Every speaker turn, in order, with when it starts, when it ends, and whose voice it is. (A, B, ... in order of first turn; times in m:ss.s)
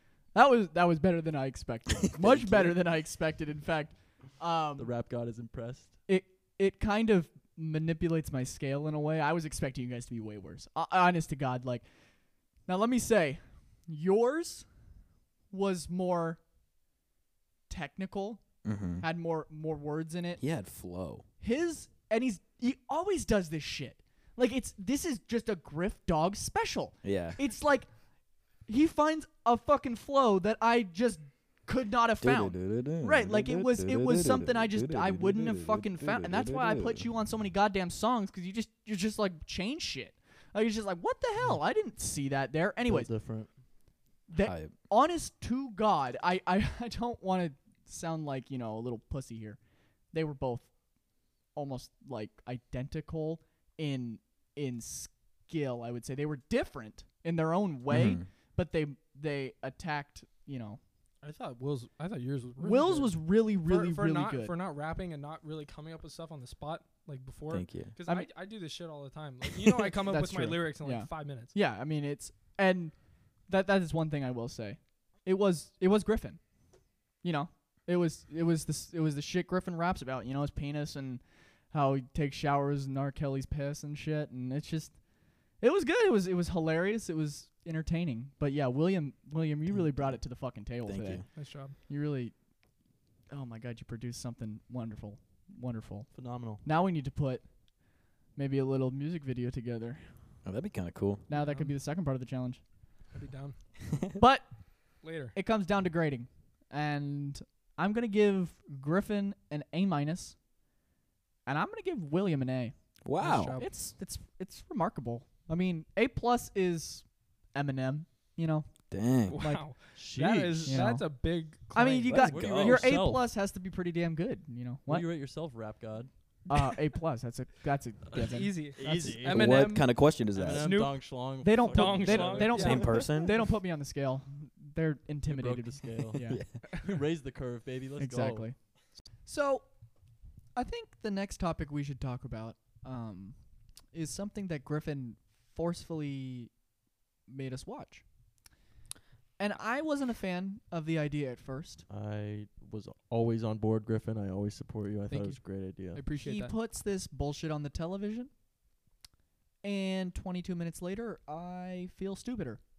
0:00.3-0:04.9 A
0:02.3-0:02.7 B
0:04.8-0:06.0 C
0:06.1-0:11.8 A
0:12.7-0:14.7 A
0:15.5-0:16.4 A
0:17.7-0:18.4 A
0:18.6-0:19.0 B
0:19.0-0:20.4 A
0:20.4-0:21.2 B
0:21.4-0:27.9 A
0:27.0-0:27.4 B
0:28.7-0:43.1 A
0:32.2-0:37.0 B
0:42.9-0:43.5 C
0:44.3-0:49.6 A
0:44.4-0:44.7 B
0:50.1-0:50.7 A
0:51.5-1:00.8 A
0:57.9-0:58.3 B
1:01.2-1:11.5 D
1:02.6-1:04.5 A
1:07.5-1:07.9 B
1:09.6-1:12.9 A
1:13.5-1:16.4 A
1:17.2-1:25.0 A
1:25.6-1:32.3 A
1:29.7-1:30.2 B
1:30.9-1:31.2 B
1:31.3-1:31.8 D
1:33.3-1:36.1 A
1:36.1-1:36.6 C
1:36.6-1:37.4 A
1:38.4-1:40.1 A
1:40.4-1:41.2 B
1:41.3-1:42.6 A
1:41.3-1:41.7 D
1:43.1-1:43.6 D
1:44.2-1:44.5 A
1:45.0-1:45.4 D
1:45.3-1:50.4 A
1:51.5-1:52.7 A
1:53.0-1:53.6 B
1:53.2-1:53.7 D
1:53.6-1:58.7 A
1:58.9-1:59.4 B
1:59.3-2:02.5 D
1:59.3-1:59.6 A
2:00.0-2:00.8 C
2:00.6-2:01.1 A
2:01.7-2:05.1 A
2:02.1-2:02.9 B
2:02.2-2:03.2 C
2:04.9-2:06.1 C
2:06.5-2:09.2 A
2:08.1-2:09.8 C
2:08.2-2:11.0 D
2:09.2-2:10.7 B
2:10.3-2:13.1 C
2:11.4-2:16.6 A
2:11.6-2:13.1 D
2:12.6-2:13.4 B
2:15.3-2:18.5 C
2:16.2-2:16.6 B
2:18.0-2:18.7 A
2:19.3-2:19.7 A
2:20.6-2:23.4 A
2:23.9-2:26.5 A
2:27.3-2:28.0 A
2:29.4-2:31.8 A
2:31.9-2:36.0 C
2:35.1-2:35.4 D
2:35.9-2:36.6 D
2:36.2-2:38.3 A
2:39.6-2:42.6 A